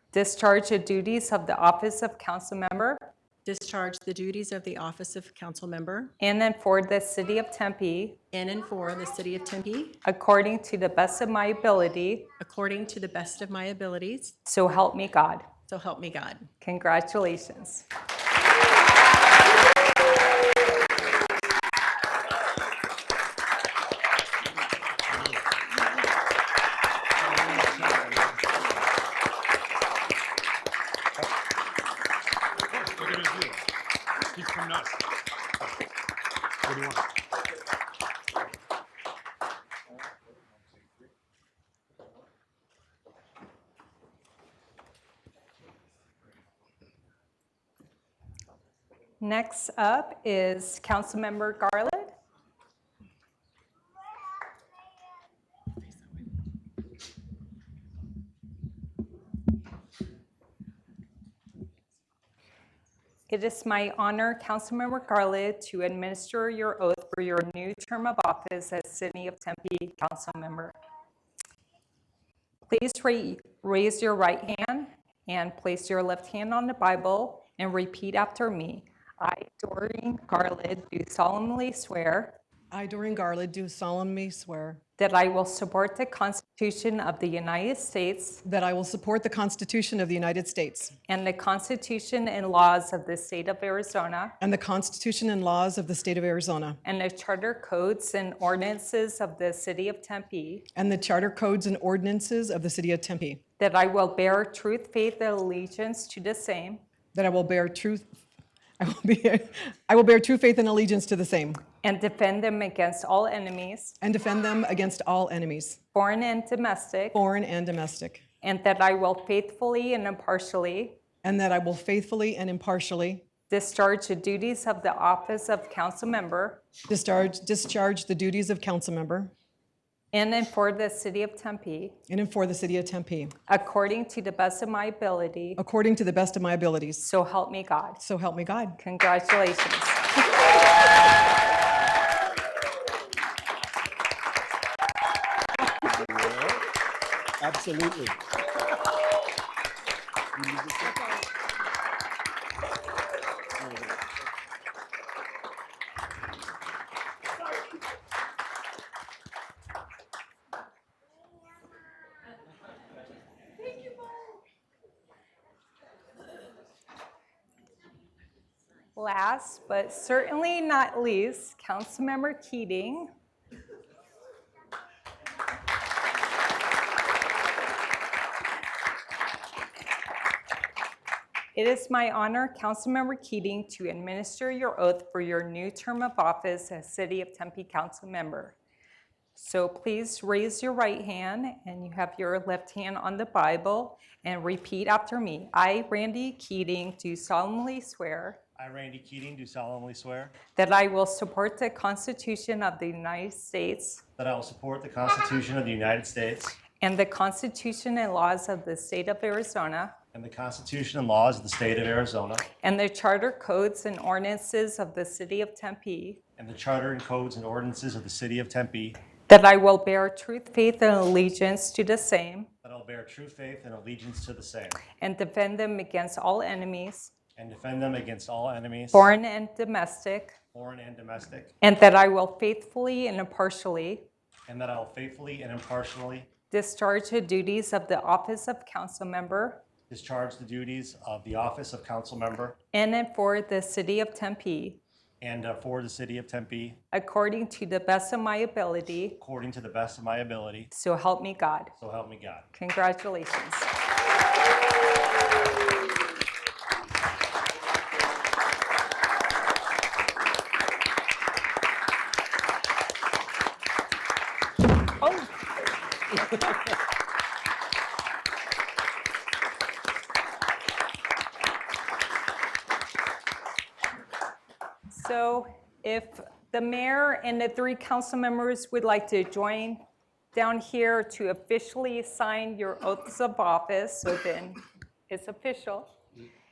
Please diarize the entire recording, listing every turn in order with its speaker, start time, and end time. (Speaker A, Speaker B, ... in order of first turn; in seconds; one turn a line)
Speaker A: 0.1-3.1
Speaker B: 3.4-6.1
Speaker A: 6.2-8.2
Speaker B: 8.3-10.0
Speaker A: 10.0-12.3
Speaker B: 12.3-14.4
Speaker A: 14.4-15.6
Speaker B: 15.7-16.5
Speaker A: 16.6-17.9
Speaker C: 25.1-25.4
Speaker C: 27.2-28.8
Speaker C: 32.7-33.6
Speaker C: 34.3-35.0
Speaker C: 36.6-37.1
Speaker A: 49.2-52.1
Speaker A: 63.3-70.7
Speaker A: 72.7-82.4
Speaker D: 82.7-84.8
Speaker A: 85.0-88.4
Speaker D: 88.4-90.9
Speaker A: 91.1-94.3
Speaker D: 94.4-96.8
Speaker A: 96.8-100.7
Speaker D: 100.7-103.4
Speaker A: 103.6-106.8
Speaker D: 107.1-108.0
Speaker D: 108.8-111.6
Speaker A: 111.8-114.0
Speaker D: 114.0-115.8
Speaker A: 115.9-117.2
Speaker D: 117.1-118.2
Speaker A: 118.4-121.0
Speaker D: 121.2-123.2
Speaker A: 123.5-126.6
Speaker D: 126.9-129.3
Speaker A: 130.1-132.0
Speaker D: 132.1-133.3
Speaker A: 133.5-135.6
Speaker D: 135.6-137.1
Speaker A: 137.0-138.0
Speaker D: 138.0-138.8
Speaker A: 138.8-140.0
Speaker E: 145.8-146.6
Speaker E: 147.4-148.2
Speaker E: 150.3-151.2
Speaker E: 153.6-154.0
Speaker A: 168.9-173.1
Speaker A: 181.5-188.6
Speaker A: 189.3-198.4
Speaker F: 198.6-200.4
Speaker A: 200.6-204.0
Speaker F: 204.2-206.6
Speaker A: 206.8-209.9
Speaker F: 210.1-212.4
Speaker A: 212.6-216.2
Speaker F: 216.4-219.0
Speaker A: 219.3-222.5
Speaker F: 222.6-224.8
Speaker A: 225.0-227.1
Speaker F: 227.3-229.1
Speaker A: 228.9-230.3
Speaker F: 230.5-231.5
Speaker A: 231.6-234.1
Speaker F: 234.5-236.3
Speaker A: 236.5-239.6
Speaker F: 239.9-242.6
Speaker A: 242.7-244.8
Speaker F: 245.2-246.8
Speaker A: 246.9-249.2
Speaker F: 249.2-250.7
Speaker A: 250.7-251.7
Speaker F: 251.8-252.5
Speaker A: 252.5-253.7
Speaker A: 274.9-279.8
Speaker A: 280.3-285.9